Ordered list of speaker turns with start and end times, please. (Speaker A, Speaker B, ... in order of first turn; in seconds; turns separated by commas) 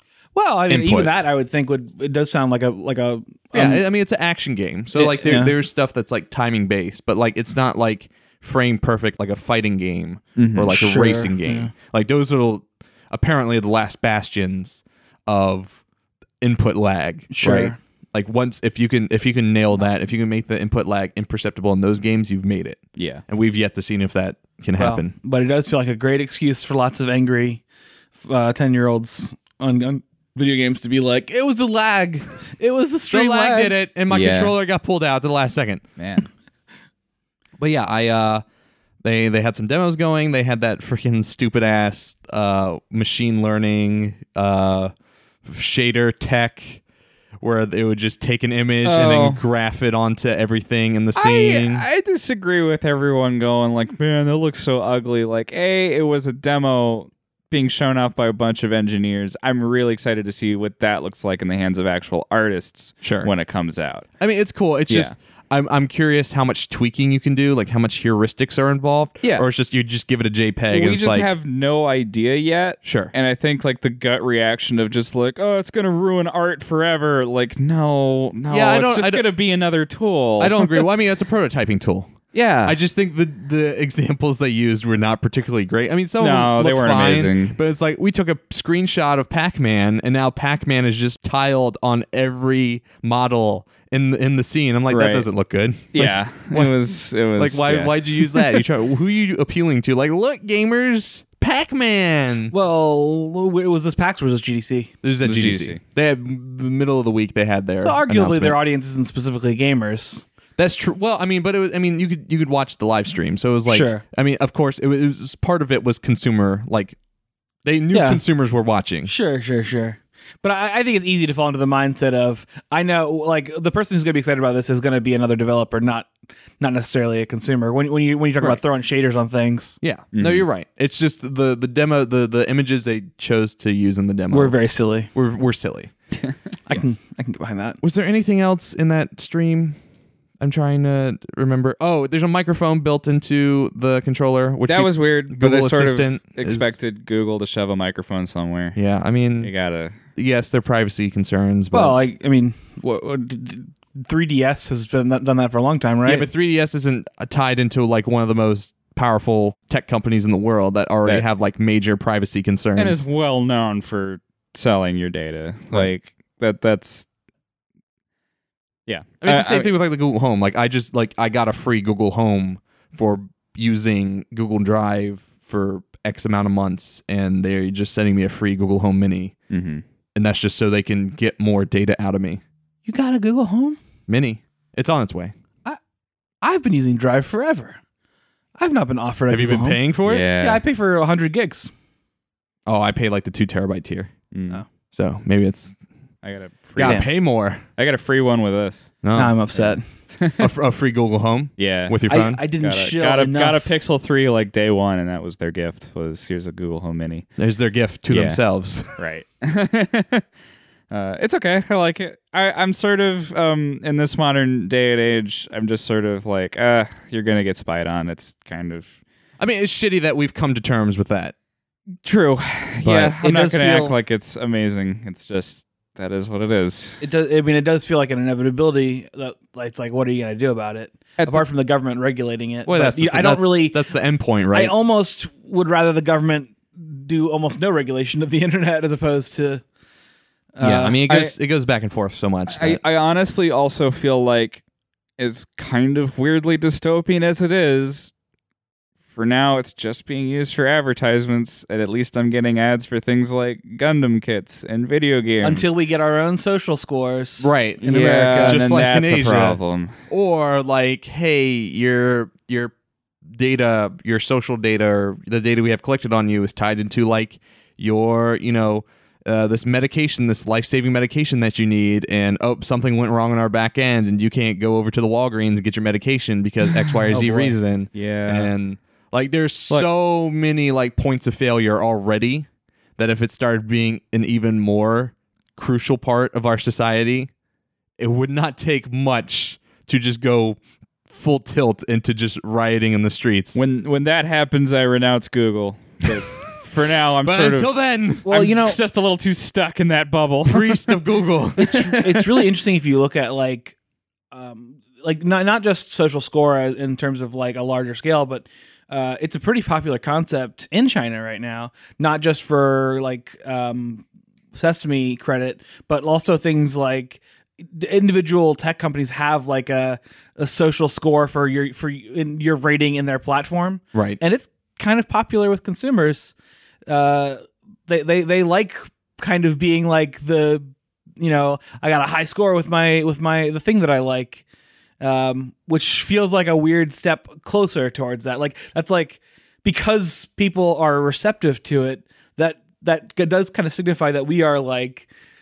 Speaker A: 0.3-3.8, Speaker B: 0.7-1.1, Speaker B: 3.5-15.8, Speaker A: 4.9-5.5, Speaker C: 10.3-10.7, Speaker A: 10.7-11.7, Speaker B: 16.4-25.1, Speaker A: 17.3-17.8, Speaker C: 23.0-23.2, Speaker A: 24.8-27.6, Speaker A: 28.1-33.7, Speaker B: 33.1-35.8, Speaker C: 34.1-34.5, Speaker C: 36.0-36.3, Speaker B: 37.6-38.4, Speaker B: 39.0-44.9, Speaker B: 45.5-46.8, Speaker B: 47.4-51.8, Speaker C: 48.8-49.4, Speaker C: 51.1-64.1, Speaker B: 63.0-63.3, Speaker B: 64.2-71.3, Speaker C: 70.7-80.9, Speaker B: 72.8-73.1, Speaker B: 78.5-79.3, Speaker B: 80.4-96.8, Speaker C: 82.3-82.8, Speaker C: 86.2-87.6, Speaker C: 94.9-95.3, Speaker C: 95.9-98.6, Speaker B: 97.3-102.5, Speaker A: 102.5-104.9, Speaker B: 105.0-108.6, Speaker C: 105.2-105.8, Speaker A: 107.8-110.2, Speaker B: 110.6-117.0, Speaker A: 113.7-114.0, Speaker B: 117.6-119.1, Speaker A: 117.9-118.2, Speaker A: 119.0-129.8, Speaker B: 129.8-134.6, Speaker C: 130.1-130.4, Speaker A: 134.3-135.1, Speaker B: 135.1-135.9, Speaker A: 136.7-137.8, Speaker B: 137.8-139.8, Speaker B: 140.4-146.7, Speaker C: 144.7-148.8, Speaker B: 148.7-149.5, Speaker C: 149.4-149.9, Speaker B: 150.1-152.0, Speaker A: 151.7-156.3, Speaker B: 156.0-163.0, Speaker C: 162.8-167.0, Speaker C: 168.9-169.7, Speaker B: 169.2-179.3, Speaker C: 179.5-179.8, Speaker B: 180.2-182.4, Speaker A: 182.8-183.8, Speaker B: 184.1-185.3, Speaker A: 186.4-187.8, Speaker A: 188.6-189.8, Speaker B: 189.3-190.3, Speaker C: 190.0-190.6, Speaker A: 190.3-191.7, Speaker B: 192.7-194.1, Speaker C: 194.3-194.6, Speaker B: 194.9-195.7, Speaker C: 196.2-197.1, Speaker B: 196.8-197.6, Speaker A: 196.8-197.1, Speaker C: 197.6-199.0, Speaker B: 199.0-199.3, Speaker A: 199.1-199.8, Speaker C: 199.5-200.5, Speaker B: 200.4-202.4, Speaker C: 201.6-207.3, Speaker A: 202.1-203.8, Speaker B: 207.4-208.9, Speaker C: 208.1-208.4, Speaker C: 208.9-210.2, Speaker C: 210.9-218.9, Speaker B: 219.4-221.3, Speaker C: 222.0-227.1, Speaker B: 222.8-223.8, Speaker A: 223.2-223.9, Speaker A: 227.0-233.8, Speaker B: 232.7-234.7, Speaker A: 234.5-239.6, Speaker A: 240.6-241.0, Speaker B: 240.6-242.8, Speaker C: 241.1-241.3, Speaker C: 242.5-244.6, Speaker C: 245.2-248.1, Speaker C: 249.1-255.7, Speaker A: 255.4-258.8, Speaker B: 257.4-262.7, Speaker C: 257.8-259.9, Speaker B: 263.3-287.3, Speaker A: 277.1-277.6, Speaker C: 277.9-278.5, Speaker B: 288.0-293.6, Speaker C: 293.5-297.7, Speaker B: 297.2-298.5, Speaker C: 298.2-301.0, Speaker A: 298.3-298.8, Speaker B: 300.4-301.9, Speaker A: 301.6-303.8, Speaker C: 301.7-302.5, Speaker A: 304.3-326.3, Speaker B: 323.9-324.2, Speaker A: 326.9-334.4, Speaker A: 335.0-345.1